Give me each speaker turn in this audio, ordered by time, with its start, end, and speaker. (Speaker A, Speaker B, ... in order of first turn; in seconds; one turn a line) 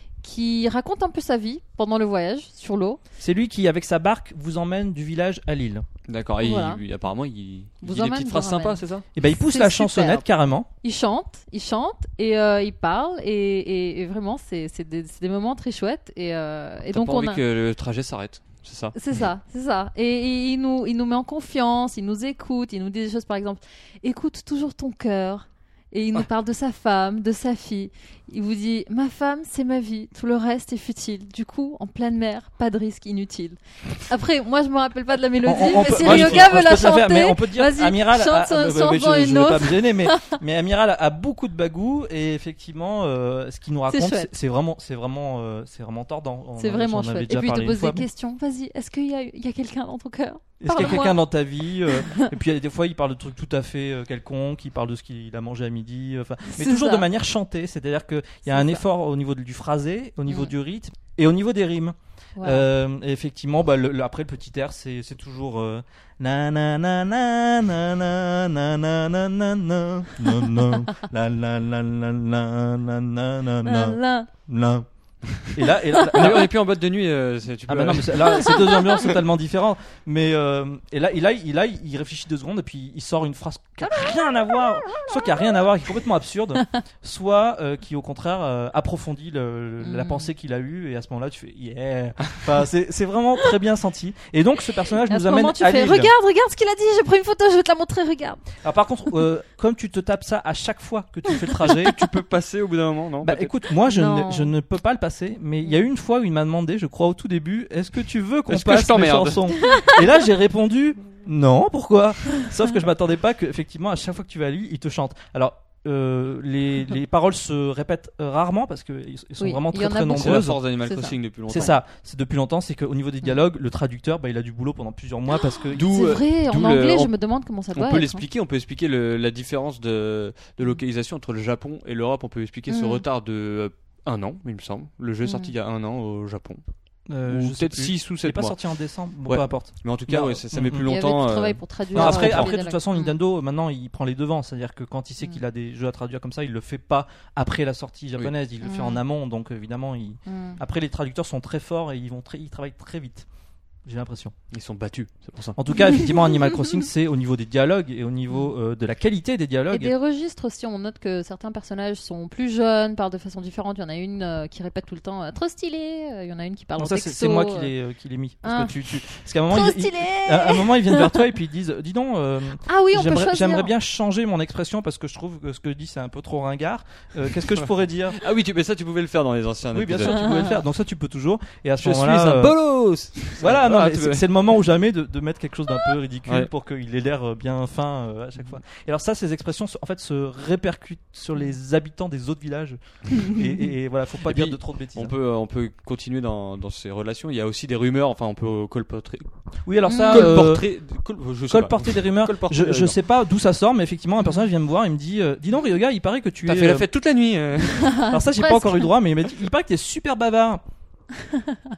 Speaker A: 0.2-3.0
Speaker B: 3.2-5.8
Speaker C: 6.1-9.0
Speaker A: 6.4-6.8
Speaker A: 7.8-10.2
Speaker B: 9.1-10.7
Speaker A: 10.8-17.4
Speaker C: 16.9-18.9
Speaker A: 18.9-40.4
Speaker B: 35.4-48.1
Speaker C: 35.9-36.5
Speaker A: 43.9-44.3
Speaker A: 46.6-51.2
Speaker B: 50.6-74.9
Speaker A: 51.9-52.3
Speaker A: 56.5-57.0
Speaker A: 58.5-58.8
Speaker A: 62.4-62.7
Speaker A: 73.6-74.3
Speaker B: 75.5-76.5
Speaker A: 75.9-76.4
Speaker C: 76.1-78.7
Speaker B: 77.7-96.1
Speaker A: 78.4-79.1
Speaker A: 89.8-90.3
Speaker A: 95.0-98.4
Speaker B: 98.6-102.0
Speaker C: 101.6-103.5
Speaker B: 103.2-120.6
Speaker A: 103.8-104.5
Speaker C: 108.5-109.5
Speaker A: 109.6-110.0
Speaker A: 119.4-121.7
Speaker C: 120.1-121.8
Speaker B: 121.5-125.9
Speaker C: 125.7-127.1
Speaker A: 125.8-128.2
Speaker C: 127.7-136.6
Speaker A: 132.7-133.0
Speaker A: 135.2-135.5
Speaker B: 137.1-140.9
Speaker C: 137.3-138.6
Speaker C: 139.3-142.5
Speaker A: 140.8-143.1
Speaker B: 141.9-153.2
Speaker A: 148.6-149.0
Speaker A: 150.2-150.6
Speaker B: 153.8-154.3
Speaker C: 154.5-155.6
Speaker B: 155.6-159.9
Speaker A: 159.7-167.7
Speaker B: 166.8-178.2
Speaker A: 168.4-168.7
Speaker A: 169.5-171.3
Speaker A: 172.6-173.7
Speaker C: 178.1-180.4
Speaker B: 179.7-182.6
Speaker A: 180.1-180.6
Speaker C: 181.8-184.3
Speaker B: 183.4-195.1
Speaker C: 194.2-199.2
Speaker B: 199.7-200.7
Speaker A: 199.8-200.3
Speaker C: 200.1-202.9
Speaker B: 201.5-206.9
Speaker C: 206.4-208.1
Speaker A: 207.8-208.9
Speaker B: 208.1-210.6
Speaker A: 211.3-211.6